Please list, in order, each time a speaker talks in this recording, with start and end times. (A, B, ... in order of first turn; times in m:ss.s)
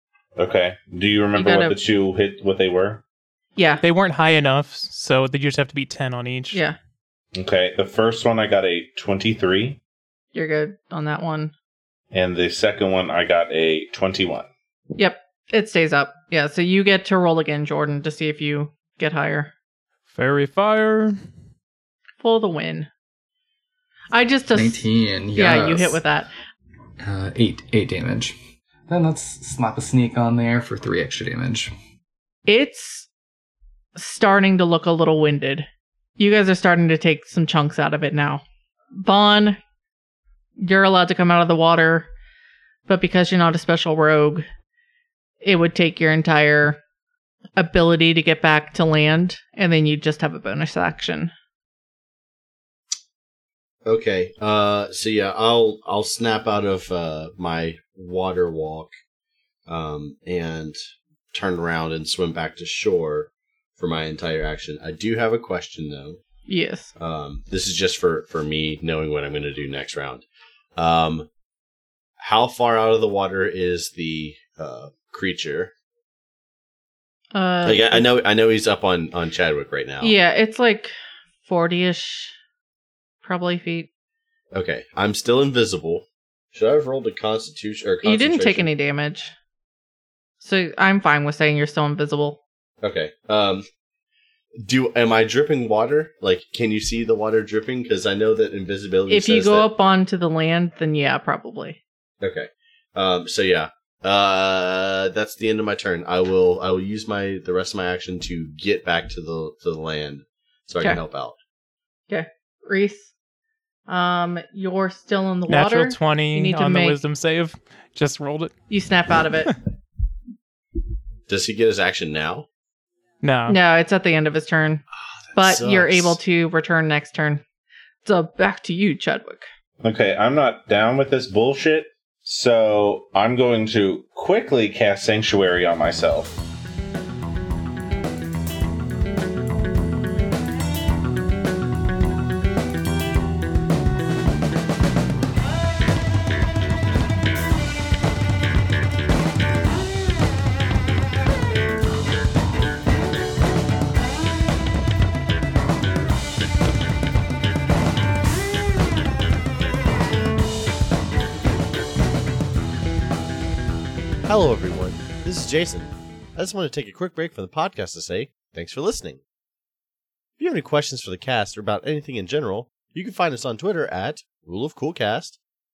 0:00.4-0:03.0 A
0:01.4-0:01.8 B
0:03.6-0:03.8 B
0:03.8-0:06.6 C
0:06.5-0:06.8 B
0:07.4-0:09.8 A
0:10.3-0:11.5 B
0:12.1-0:14.5 A
0:15.0-0:19.5 B
0:20.1-0:21.2 C
0:22.2-0:22.9 B
0:24.1-0:26.3 B
0:24.5-0:26.0 D
0:27.0-0:28.4 D
0:28.9-0:31.7 D
0:32.5-0:33.1 B
0:34.0-0:35.7 B
0:36.2-0:38.4 B
0:38.9-0:39.6 B
0:40.6-0:42.1 B
0:42.9-0:44.5 B
0:45.4-0:46.8 B
0:47.6-0:51.3 B
0:53.8-0:58.9 E
0:59.7-1:00.8 E
1:01.3-1:06.2 E
1:06.5-1:06.9 B
1:07.0-1:10.2 E
1:10.8-1:11.3 E
1:12.2-1:15.7 E
1:17.3-1:18.1 B
1:17.6-1:20.1 E
1:20.0-1:20.9 B
1:21.5-1:22.4 B
1:23.2-1:23.9 B
1:24.5-1:28.7 E
1:28.0-1:29.3 B
1:30.4-1:32.4 B
1:32.8-1:33.6 E
1:34.6-1:39.6 E
1:39.1-1:41.8 B
1:42.2-1:51.4 E
1:52.1-1:53.1 B
1:53.9-1:57.0 B
1:55.5-1:58.5 C
1:58.7-1:59.6 B
2:01.3-2:02.5 E
2:03.2-2:03.6 C
2:03.5-2:04.8 B
2:05.3-2:06.2 E
2:05.4-2:07.4 B
2:08.0-2:09.5 B
2:09.8-2:16.4 A
2:44.3-2:49.2 E
2:50.4-2:55.4 E